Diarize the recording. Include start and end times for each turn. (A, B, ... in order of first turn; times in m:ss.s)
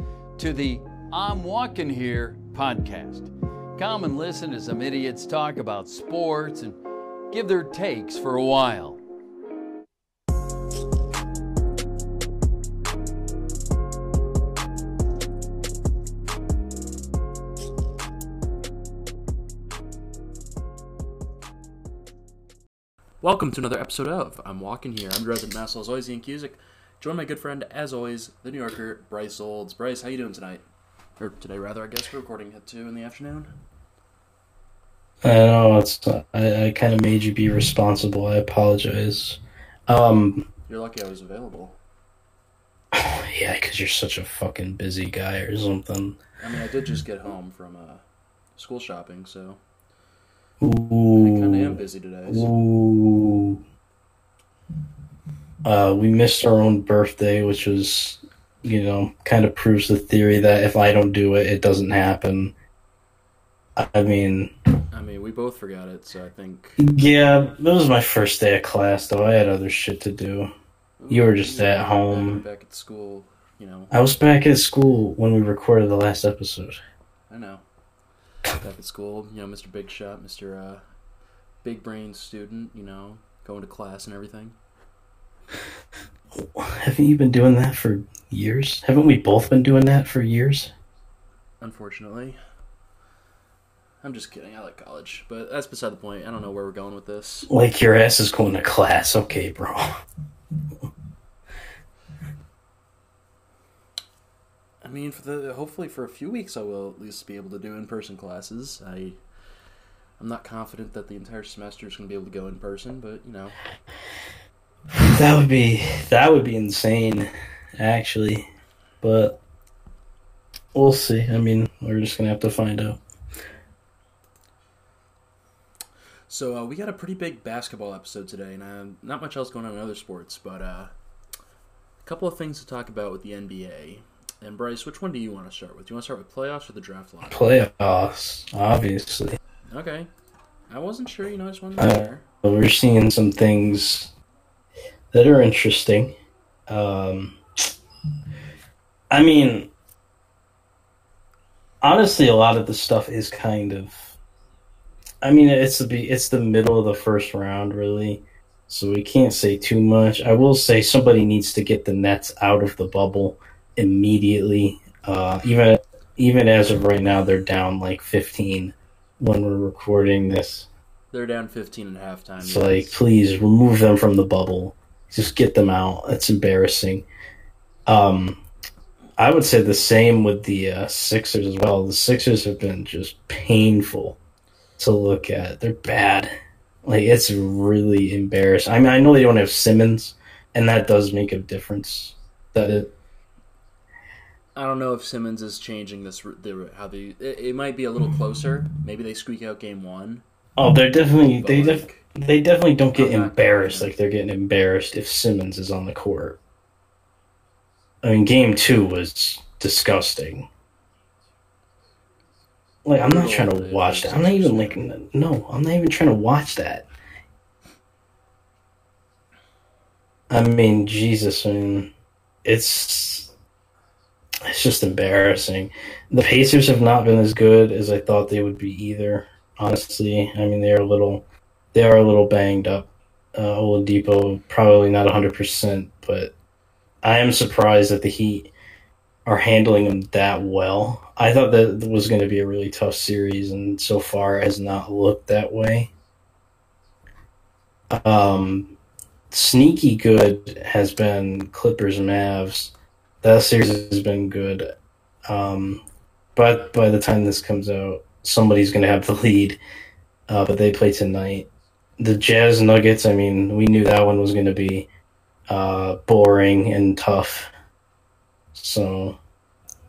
0:00.4-0:06.8 A
0:07.3-0:09.0 A
0:23.2-0:30.6 B
0:31.2-0:33.5 B
0:35.2-0:40.5 C
0:40.7-0:41.8 B
0:42.9-0:46.2 C
0:46.4-0:48.0 B
0:48.6-0:49.6 B
0:50.6-0:53.6 C
0:51.2-0:52.5 B
0:55.6-1:02.5 C
1:03.8-1:04.5 C
1:04.9-1:06.8 B
1:06.8-1:10.5 C
1:11.0-1:14.0 B
1:11.1-1:12.4 C
1:13.9-1:16.8 C
1:17.3-1:17.6 B
1:18.6-1:20.8 B
1:21.6-1:24.6 B
1:26.4-1:30.7 C
1:31.6-1:32.4 B
1:34.0-1:37.5 B
1:37.5-1:39.8 C
1:44.8-1:49.2 B
1:50.2-1:53.6 B
1:55.0-1:58.5 C
1:59.0-1:59.4 C
2:00.7-2:03.0 C
2:06.3-2:10.9 B
2:12.0-2:17.4 B
2:17.2-2:19.4 C
2:19.7-2:20.1 B
2:20.7-2:22.2 B
2:21.8-2:24.1 C
2:25.1-2:26.2 C
2:26.7-2:27.7 C
2:29.1-2:29.7 C
2:31.8-2:34.2 C
2:35.2-2:50.7 C
2:51.1-2:53.0 B
2:52.4-2:57.1 C
2:57.9-2:58.4 C
2:59.2-3:04.2 C
3:04.8-3:06.3 C
3:06.8-3:12.9 C
3:14.5-3:20.2 B
3:20.6-3:26.4 C
3:21.4-3:22.0 B
3:22.9-3:23.9 B
3:28.0-3:30.5 C
3:32.8-3:36.9 C
3:33.0-3:34.8 B
3:40.3-3:41.9 C
3:42.4-3:43.3 C
3:44.5-3:56.3 C
3:57.0-3:58.5 C
3:59.2-4:05.9 C
4:07.9-4:08.8 C
4:09.3-4:14.7 C
4:15.3-4:15.8 C
4:16.4-4:19.6 C
4:20.3-4:21.5 C
4:22.0-4:24.9 C
4:25.5-4:27.5 C
4:28.5-4:29.2 C